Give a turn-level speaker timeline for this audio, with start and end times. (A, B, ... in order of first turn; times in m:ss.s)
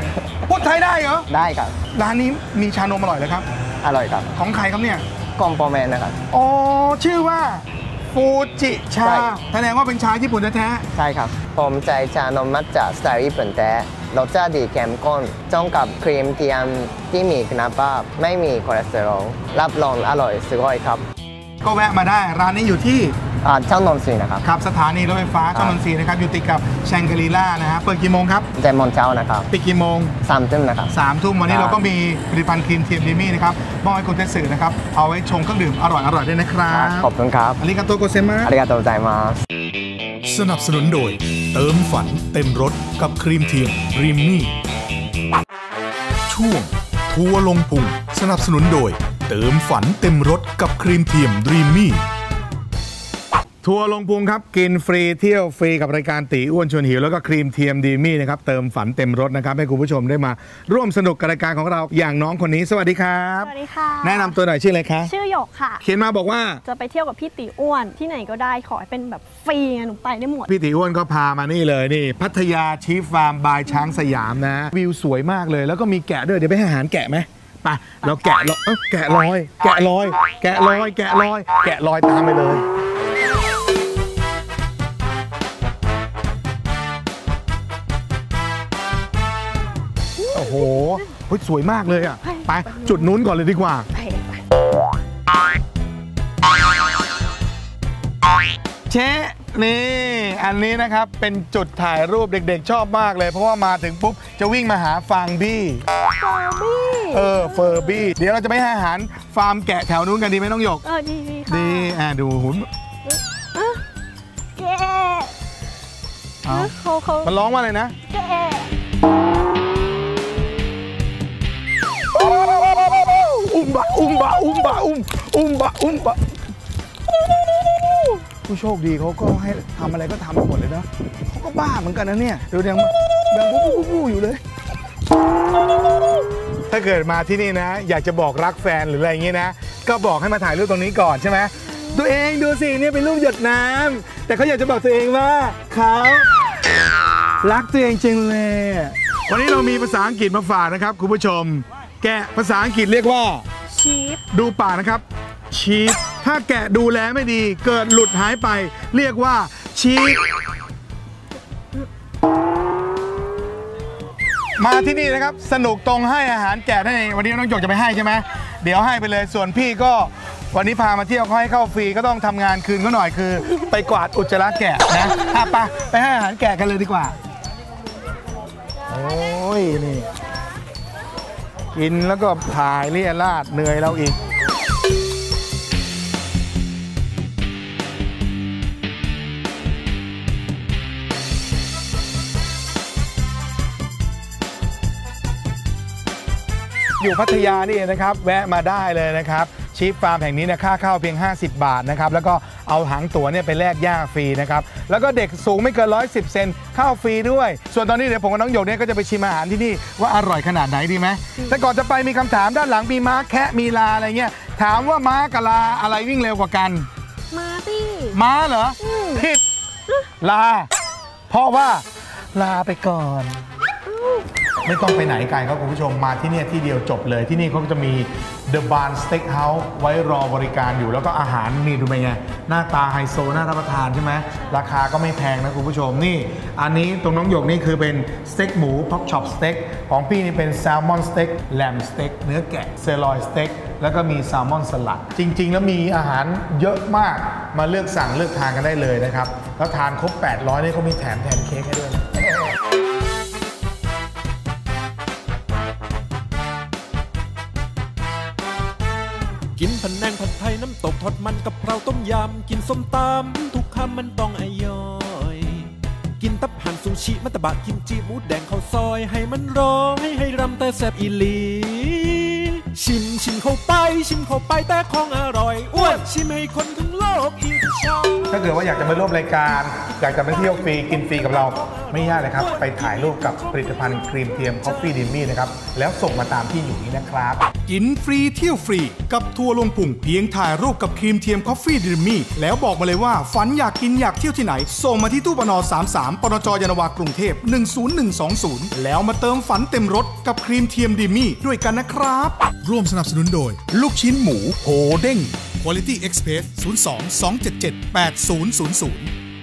0:00.4-0:01.3 A
0:01.3-0:01.8 B
0:01.9-0:03.5 A
0:03.8-0:04.3 B
0:04.3-0:05.0 A
0:05.4-0:06.2 B
0:06.3-0:10.8 A
0:09.0-0:09.4 B
0:11.0-0:21.0 B
0:21.6-0:23.2 A
0:23.4-0:24.4 B
0:24.4-0:28.5 A
0:28.6-0:29.5 B
0:29.5-0:30.2 A
0:30.2-0:30.9 B
0:30.9-0:38.5 A
0:31.4-0:31.8 B
0:36.7-0:37.6 B
0:38.4-0:39.4 B
0:40.2-0:44.5 C
0:43.7-0:44.1 A
0:46.3-0:52.0 C
0:53.6-1:05.1 A
1:03.4-1:04.4 D
1:05.0-1:05.8 D
1:05.8-1:06.6 A
1:06.7-1:10.5 D
1:10.5-1:22.7 A
1:30.3-1:33.9 A
1:34.1-1:34.3 D
1:38.9-1:45.8 A
1:46.1-1:47.9 D
1:47.1-1:50.8 A
1:50.8-1:52.0 D
1:51.5-1:52.7 A
1:53.1-1:53.8 D
1:54.6-1:55.3 D
1:56.4-1:56.7 A
1:56.5-1:57.3 D
1:57.2-1:58.0 A
1:58.1-1:58.7 D
2:02.1-2:06.3 A
2:08.2-2:14.4 A
2:16.7-2:26.3 A
2:27.4-2:33.4 A
2:33.7-2:34.2 D
2:34.3-2:40.3 A
2:44.6-2:57.2 A
2:58.9-3:00.1 A
3:01.7-3:04.2 A
3:17.0-3:36.9 A
3:37.3-3:38.2 D
3:38.1-3:39.4 A
3:38.9-3:39.2 D
3:40.2-3:40.7 A
3:41.3-3:43.4 A
3:43.9-3:44.2 D
3:44.6-4:12.1 A
4:19.6-4:38.3 E
4:38.3-4:47.5 A
4:42.2-4:43.6 E
4:47.7-5:00.8 C
4:48.5-4:51.4 A
4:51.9-5:05.0 A
5:02.4-5:09.0 C
5:05.6-5:08.9 A